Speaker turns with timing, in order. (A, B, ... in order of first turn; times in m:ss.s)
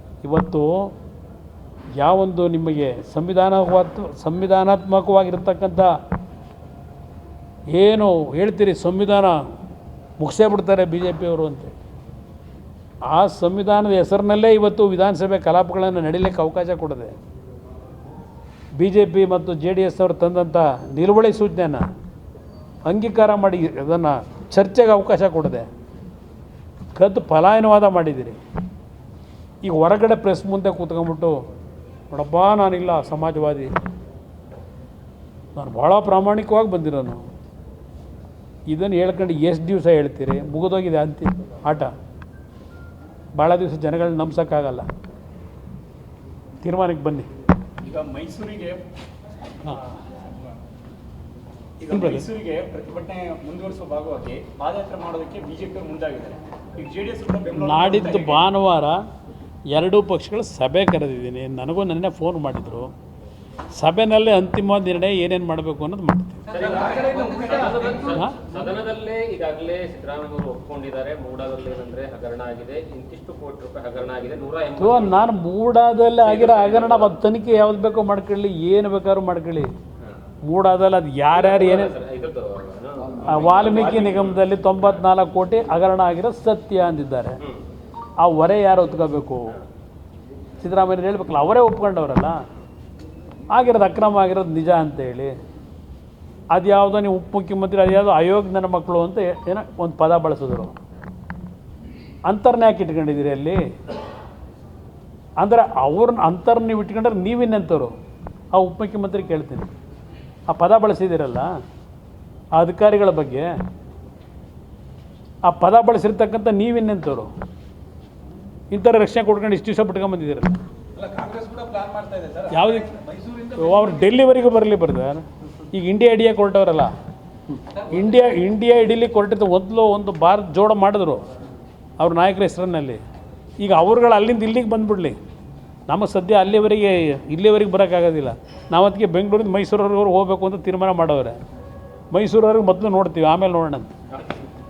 0:00.2-0:00.9 A
0:02.0-0:06.0 A
0:07.7-0:09.4 A
0:10.2-0:11.7 A
0:13.0-0:17.1 A
0:18.8-0:21.9 A
0:22.8-0:25.7 A
0:27.0-0:28.4 A
0:29.6-0:31.4 A
0:32.1-0:33.7 A
0:35.5-0:37.2 A
0:38.7-0:41.9 A
0:43.4-0:44.9 A
0:46.6-0:47.3 A
0:47.8-0:48.8 B
0:51.8-0:58.4 B
0:51.9-0:52.2 A
0:57.6-0:59.0 A
0:59.7-1:02.9 A
1:03.7-1:06.5 A
1:06.5-1:15.3 C
1:08.0-1:08.4 A
1:14.8-1:19.7 A
1:16.2-1:17.1 C
1:20.5-1:21.9 A
1:21.3-1:24.4 C
1:23.2-1:27.4 A
1:28.2-1:29.6 A
1:30.6-1:32.4 A
1:33.5-1:35.3 A
1:36.5-1:40.8 A
1:42.3-1:43.6 A
1:45.4-1:47.9 A
1:48.5-1:49.7 A
1:50.5-1:51.6 A
1:52.6-1:53.6 A
1:55.4-1:57.3 A
1:58.7-2:00.6 A
2:01.0-2:03.6 B
2:02.5-2:03.0 A
2:03.5-2:06.9 A
2:07.7-2:11.2 A
2:12.0-2:13.0 A
2:13.6-2:15.2 A
2:15.9-2:21.4 A
2:22.1-2:23.9 A